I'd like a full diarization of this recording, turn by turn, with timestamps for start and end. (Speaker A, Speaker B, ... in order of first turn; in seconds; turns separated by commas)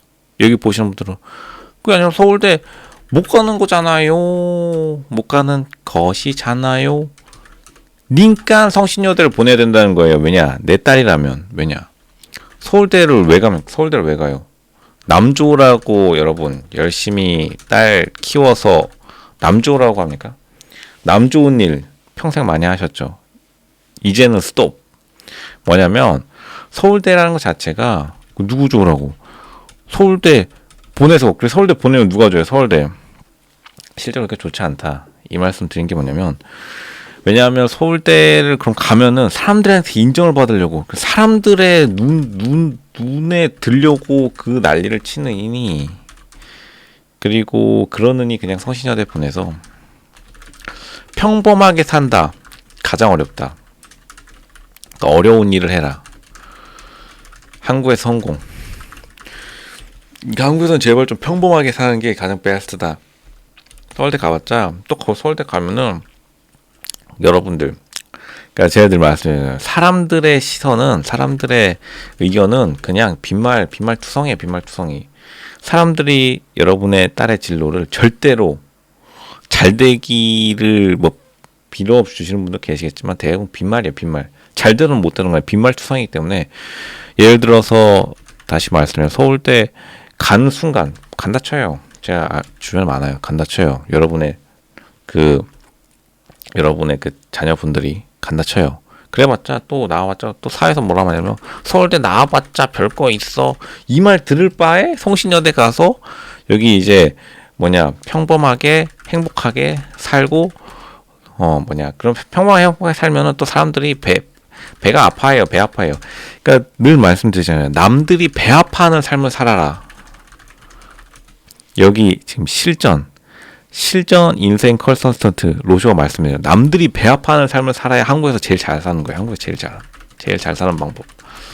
Speaker A: 0.4-1.2, Speaker A: 1.8-7.1, Speaker A: 8.1-11.9, Speaker A: 12.6-14.5, Speaker A: 15.1-20.4, Speaker A: 21.0-23.2, Speaker A: 24.0-24.8, Speaker A: 25.6-29.2, Speaker A: 29.9-33.0, Speaker A: 34.0-36.4, Speaker A: 37.2-46.0, Speaker A: 47.2-49.6, Speaker A: 51.1-53.5, Speaker A: 55.0-56.0, Speaker A: 57.6-58.4, Speaker A: 60.2-63.0, Speaker A: 64.0-66.0, Speaker A: 67.2-67.8, Speaker A: 68.5-75.1, Speaker A: 75.6-78.6, Speaker A: 79.5-81.2, Speaker A: 81.7-94.4, Speaker A: 95.1-95.5, Speaker A: 96.5-110.6, Speaker A: 111.4-114.3, Speaker A: 114.8-119.8, Speaker A: 121.8-123.1, Speaker A: 123.7-131.1